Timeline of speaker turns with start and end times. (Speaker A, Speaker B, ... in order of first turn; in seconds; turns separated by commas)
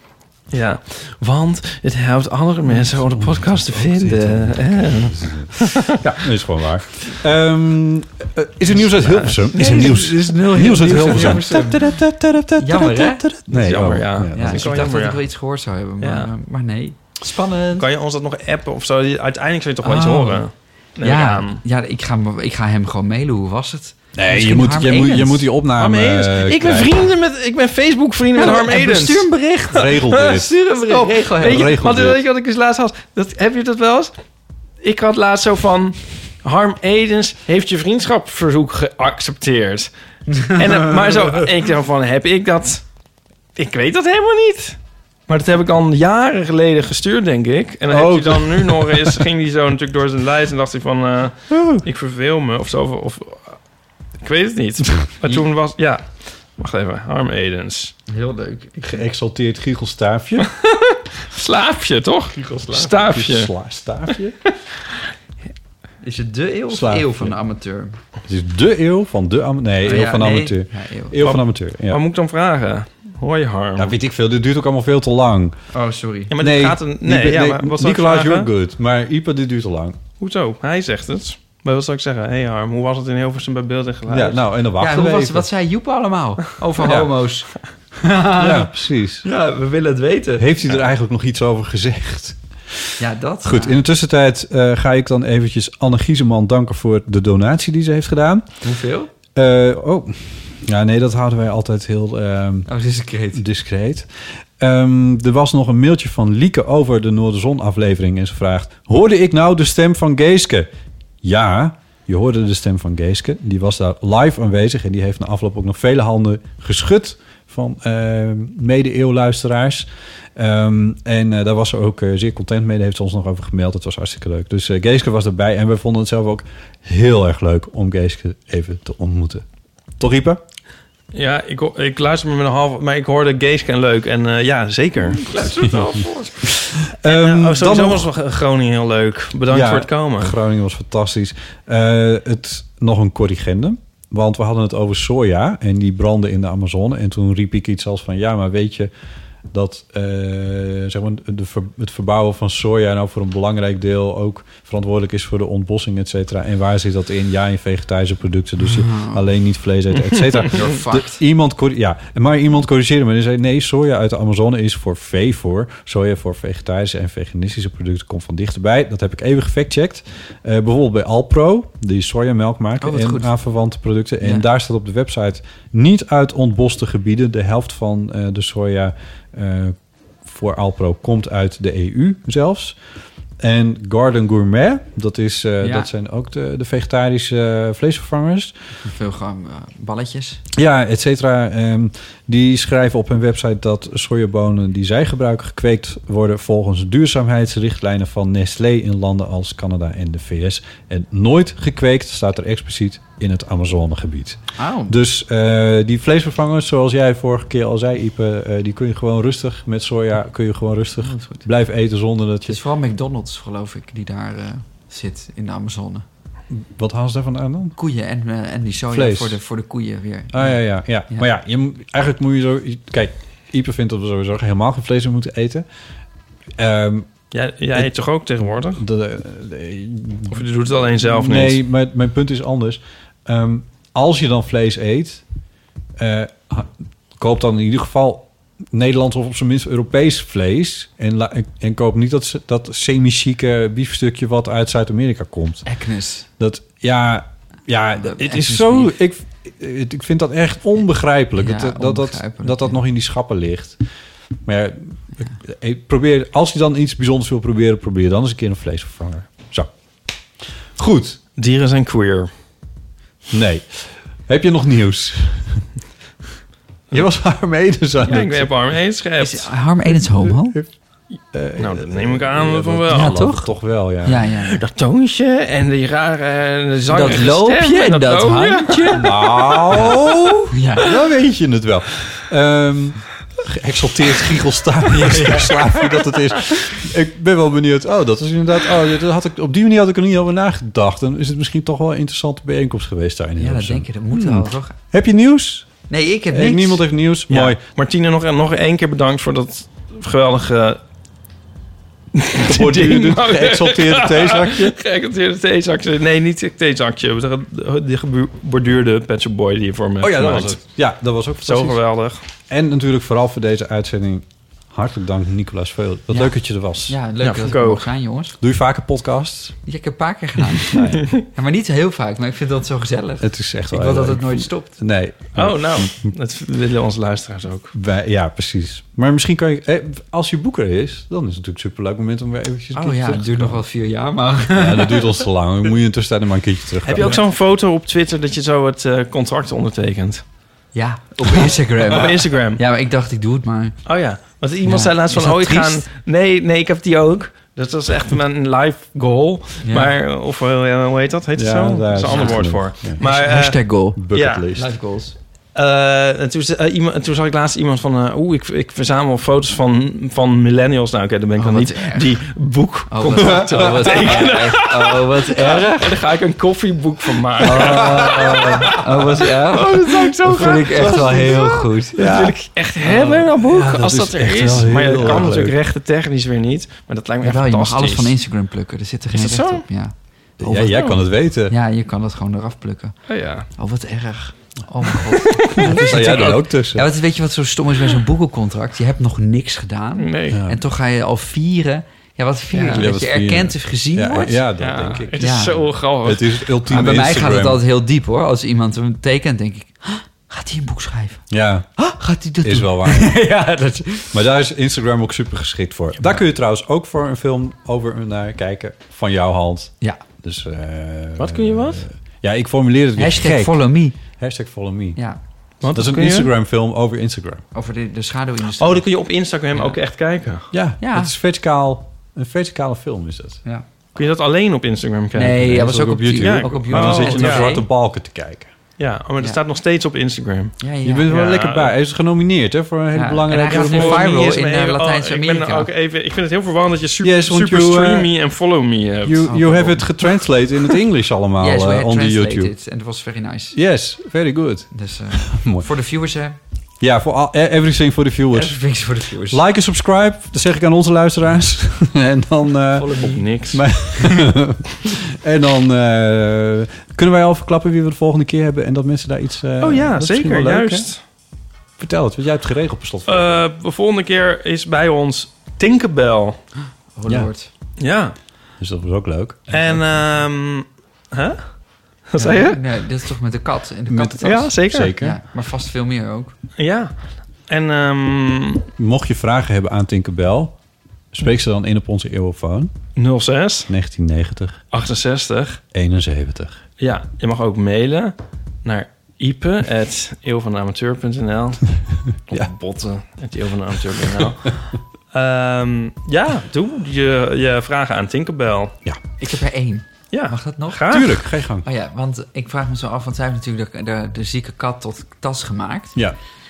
Speaker A: 0.5-6.3, Speaker B: 2.7-14.9, Speaker A: 9.0-9.9, Speaker C: 9.6-12.0, Speaker C: 12.6-13.3, Speaker A: 13.5-15.2, Speaker C: 14.3-17.9, Speaker A: 16.0-16.3, Speaker A: 17.8-21.6, Speaker C: 19.8-20.5, Speaker C: 21.0-25.5, Speaker B: 24.1-27.0, Speaker A: 25.8-34.1, Speaker C: 28.4-29.9, Speaker B: 29.7-30.5, Speaker C: 30.4-31.7, Speaker B: 31.4-32.2, Speaker A: 34.8-39.9, Speaker A: 40.4-42.9, Speaker A: 43.6-53.6, Speaker B: 47.9-49.2, Speaker B: 51.5-51.8, Speaker A: 54.2-58.0, Speaker C: 58.1-59.0, Speaker B: 58.8-60.5, Speaker A: 60.4-63.5, Speaker B: 62.7-64.4, Speaker C: 66.0-68.0, Speaker B: 66.7-67.3, Speaker B: 68.3-72.0, Speaker C: 69.8-71.2, Speaker A: 71.2-74.0, Speaker B: 73.8-75.6, Speaker C: 75.7-76.3, Speaker A: 76.3-78.5, Speaker B: 76.4-80.0, Speaker A: 80.2-84.5, Speaker B: 84.1-85.5, Speaker C: 84.8-88.7, Speaker B: 86.8-87.1, Speaker B: 88.4-89.2, Speaker C: 89.2-90.5, Speaker B: 90.4-92.9, Speaker C: 93.0-93.8, Speaker B: 93.5-98.5, Speaker C: 98.6-99.1, Speaker B: 99.3-102.7, Speaker C: 102.7-103.4, Speaker B: 103.3-110.7, Speaker B: 111.2-129.4, Speaker B: 130.0-130.4, Speaker A: 131.1-140.4, Speaker B: 136.6-138.1, Speaker B: 139.5-148.9, Speaker B: 149.5-182.8, Speaker C: 158.6-159.2, Speaker C: 160.5-161.2, Speaker C: 172.8-173.3, Speaker B: 183.4-188.5, Speaker C: 185.6-185.9, Speaker C: 188.8-190.4, Speaker B: 190.6-212.6, Speaker C: 204.6-205.0, Speaker C: 211.0-211.5, Speaker C: 212.4-216.1, Speaker B: 216.5-217.8, Speaker C: 217.8-221.3, Speaker B: 218.9-219.4, Speaker B: 220.3-225.7, Speaker B: 226.6-227.1, Speaker A: 227.3-228.8, Speaker B: 228.6-230.4, Speaker A: 230.3-231.6, Speaker B: 231.0-235.2, Speaker B: 236.0-245.7, Speaker C: 245.7-246.3, Speaker B: 246.4-253.8, Speaker C: 248.0-248.9, Speaker C: 251.4-252.8, Speaker B: 254.4-259.7, Speaker B: 260.8-261.2, Speaker A: 261.4-262.3, Speaker B: 263.3-265.7, Speaker B: 266.9-268.5, Speaker A: 268.1-269.5, Speaker C: 269.2-270.6, Speaker B: 269.9-270.7, Speaker B: 271.2-274.3, Speaker A: 271.6-273.3, Speaker C: 272.9-274.6, Speaker A: 274.5-279.9, Speaker C: 276.9-279.0, Speaker B: 278.9-295.8, Speaker C: 280.5-280.9, Speaker C: 284.9-285.7, Speaker C: 293.4-294.8, Speaker C: 295.9-296.8, Speaker B: 296.3-297.6, Speaker A: 297.3-300.8, Speaker A: 302.1-310.6, Speaker B: 302.4-304.8, Speaker B: 310.0-311.8, Speaker A: 311.4-312.2, Speaker B: 312.5-317.0, Speaker C: 316.1-316.4, Speaker C: 316.9-318.4, Speaker A: 317.2-317.9, Speaker B: 318.4-319.6, Speaker C: 319.7-324.8, Speaker B: 320.7-321.1, Speaker B: 323.2-326.1, Speaker A: 325.4-327.7, Speaker B: 327.7-333.6, Speaker C: 332.7-335.1, Speaker B: 334.5-337.2, Speaker A: 336.9-340.2, Speaker C: 340.7-343.8, Speaker A: 341.9-342.6, Speaker A: 343.9-354.5, Speaker C: 344.6-345.8, Speaker C: 349.6-349.9, Speaker B: 351.4-353.0, Speaker C: 352.1-355.2, Speaker B: 353.9-354.7, Speaker A: 355.6-368.8, Speaker C: 361.4-362.2, Speaker C: 362.9-365.9, Speaker B: 363.3-364.3, Speaker B: 367.4-372.4, Speaker C: 367.4-372.1, Speaker A: 369.5-378.1, Speaker C: 372.9-373.2, Speaker B: 373.0-375.6, Speaker C: 377.2-383.0, Speaker A: 379.1-379.6, Speaker B: 380.4-381.6, Speaker A: 383.1-383.5, Speaker C: 383.5-394.4, Speaker A: 385.4-385.8, Speaker B: 385.5-386.9, Speaker A: 390.0-390.4, Speaker B: 390.3-390.6, Speaker A: 392.5-392.9, Speaker B: 392.7-397.6, Speaker A: 394.6-396.4, Speaker C: 395.2-395.7, Speaker C: 396.7-401.2, Speaker B: 401.3-401.7, Speaker C: 401.8-404.2, Speaker B: 402.4-403.2, Speaker B: 404.1-415.0, Speaker A: 411.2-411.8, Speaker C: 413.0-414.0, Speaker A: 415.6-416.3, Speaker B: 415.7-417.4, Speaker C: 417.5-418.9, Speaker A: 418.6-420.5, Speaker B: 420.5-423.4, Speaker C: 420.8-421.1, Speaker A: 423.9-425.5, Speaker C: 425.1-427.7, Speaker B: 425.3-428.5, Speaker A: 426.2-427.5, Speaker A: 428.8-431.7, Speaker C: 430.6-431.1, Speaker B: 430.8-434.3, Speaker C: 432.9-435.7, Speaker A: 433.5-440.0, Speaker B: 437.0-438.1, Speaker B: 439.0-442.5, Speaker C: 439.3-439.7, Speaker C: 441.4-443.6, Speaker B: 443.5-445.7, Speaker C: 444.7-446.4, Speaker B: 446.8-448.6, Speaker C: 448.3-449.4, Speaker B: 449.3-460.9, Speaker C: 452.8-453.2, Speaker A: 452.9-453.8, Speaker C: 453.8-454.1, Speaker A: 459.6-461.0, Speaker B: 461.8-463.4, Speaker A: 463.1-466.4, Speaker C: 467.0-467.5, Speaker A: 467.8-468.2, Speaker B: 468.6-469.5, Speaker A: 469.5-472.6, Speaker C: 469.5-469.8, Speaker C: 472.2-476.4, Speaker B: 473.9-475.2, Speaker A: 474.2-475.0, Speaker A: 476.6-476.9, Speaker A: 477.5-478.7, Speaker B: 478.8-480.6, Speaker B: 481.1-482.7, Speaker A: 483.0-483.7, Speaker B: 483.7-484.6, Speaker A: 484.7-485.6, Speaker B: 485.7-486.6, Speaker A: 486.8-498.8, Speaker C: 499.2-500.8, Speaker A: 500.1-501.2, Speaker B: 500.9-501.7, Speaker C: 501.6-506.0